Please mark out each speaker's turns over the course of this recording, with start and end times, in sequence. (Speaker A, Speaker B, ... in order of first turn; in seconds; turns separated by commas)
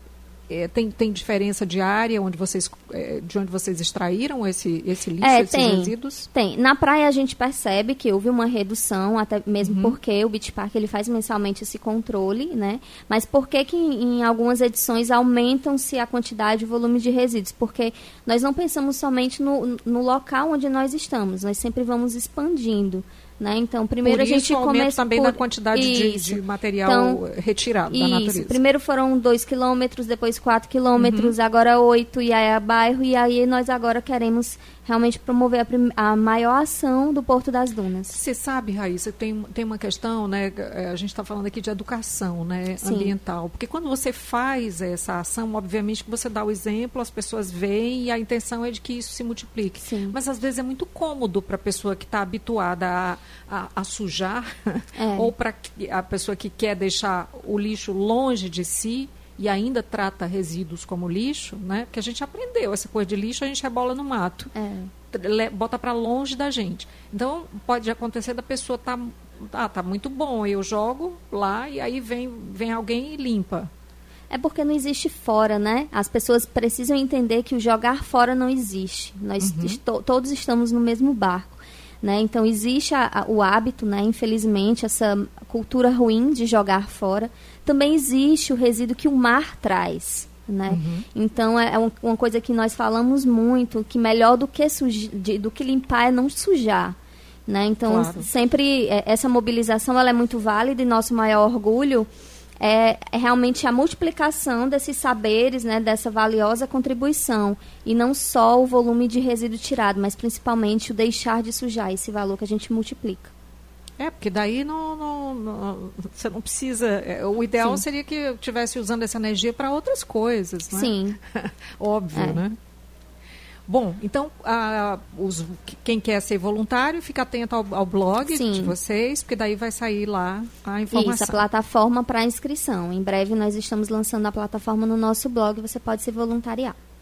Speaker A: 0.5-6.3, Speaker B: 5.2-27.2, Speaker A: 9.6-10.0, Speaker A: 24.0-28.6, Speaker B: 27.9-38.2, Speaker A: 31.0-31.4, Speaker A: 38.1-64.5, Speaker B: 42.8-43.1, Speaker B: 49.8-50.1, Speaker B: 55.0-55.3, Speaker B: 64.5-64.9, Speaker A: 65.1-73.7, Speaker B: 74.3-97.0, Speaker A: 79.4-79.8, Speaker A: 90.7-91.0, Speaker B: 97.5-102.1, Speaker A: 97.8-98.3, Speaker B: 102.6-113.3, Speaker A: 114.0-122.6, Speaker B: 120.7-121.2, Speaker B: 122.2-122.4, Speaker A: 123.7-131.5, Speaker B: 128.3-128.7, Speaker B: 130.9-136.8